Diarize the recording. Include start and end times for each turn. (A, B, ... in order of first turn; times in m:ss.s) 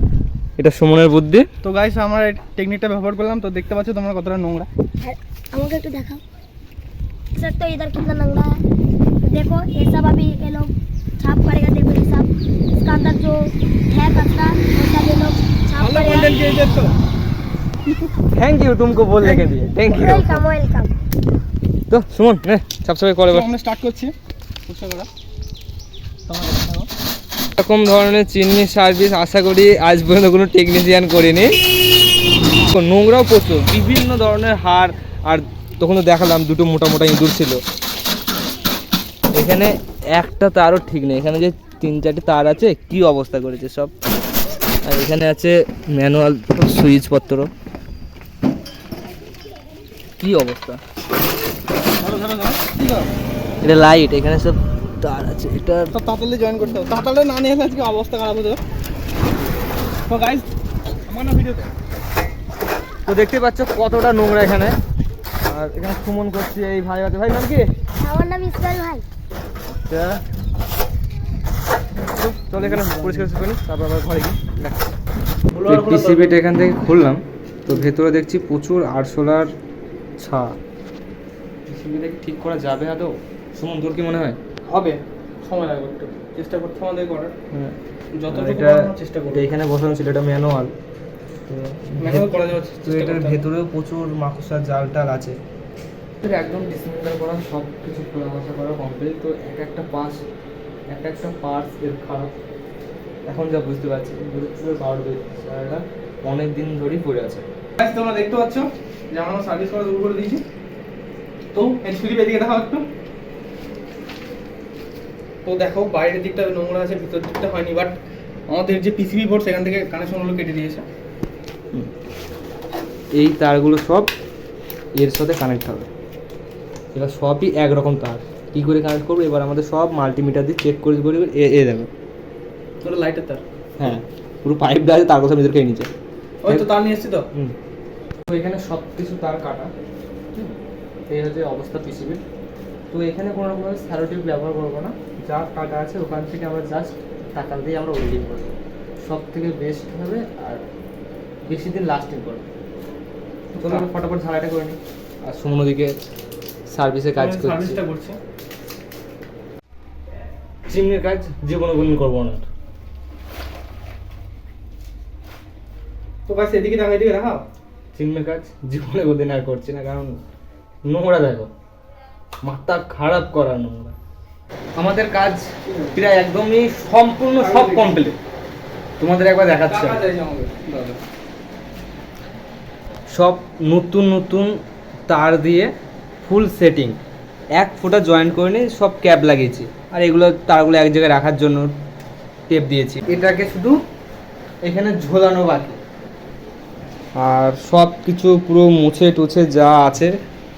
0:00.6-0:01.4 A
0:01.6-0:04.7 B
0:05.0-0:06.2 C
0:07.3-0:08.6 C
0:09.2-0:16.4 C
0:15.8-0:16.9 B
0:18.3-0:20.5 A
0:19.9-0:20.9 C
0:21.9-0:23.5 A
0:23.3-0:24.1 B
0:24.7-0:25.1 B
0:26.3-0:26.9 B
0:27.6-0:31.5 A
0:32.6-0:37.6 A
0:39.3-0:43.9 A
0:44.8-0:47.5 A
0:50.2-0:50.8 A
0:52.0-0:53.1 B
0:53.6-0:55.9 A
0:55.9-0:58.6 B
1:00.1-1:00.5 B
1:01.1-1:01.7 B
1:03.0-1:04.8 A
1:05.4-1:07.6 A
1:08.0-1:09.0 C
1:09.8-1:10.2 A
1:12.2-1:15.0 A
1:12.5-1:13.3 B
1:15.5-1:16.4 B
1:15.6-1:19.5 A
1:20.2-1:20.6 A
1:21.7-1:24.4 A
1:24.6-1:27.3 B
1:27.5-1:27.8 A
1:28.1-1:29.4 B
1:28.3-1:30.7 A
1:31.5-1:32.3 A
1:32.0-1:33.4 B
1:32.8-1:35.4 A
1:36.2-1:40.2 A
1:40.9-1:42.3 A
1:43.3-1:47.4 A
1:47.8-1:50.4 B
1:51.5-1:52.8 B
1:55.4-2:00.8 B
2:03.1-2:04.1 A
2:05.0-2:05.9 A
2:06.9-2:11.9 A
2:12.8-2:13.4 B
2:13.8-2:15.9 A
2:16.4-2:17.3 B
2:18.3-2:19.7 A
2:21.1-2:22.2 A
2:22.9-2:30.6 A
2:31.5-2:32.4 A
2:33.5-2:33.9 B
2:33.6-2:35.9 A
2:36.7-2:37.8 A
2:37.2-2:38.2 B
2:40.7-2:42.5 A
2:46.2-2:47.4 B
2:47.9-2:50.2 A
2:50.8-2:51.5 A
2:52.4-2:53.9 A
2:54.8-2:58.2 A
2:55.7-2:56.0 B
2:57.4-2:58.0 B
2:59.0-3:00.0 A
2:59.6-3:01.0 B
3:03.1-3:04.5 A
3:05.1-3:05.7 A
3:06.2-3:07.0 A
3:07.6-3:11.7 A
3:12.5-3:13.8 A
3:14.6-3:15.8 A
3:17.2-3:20.1 A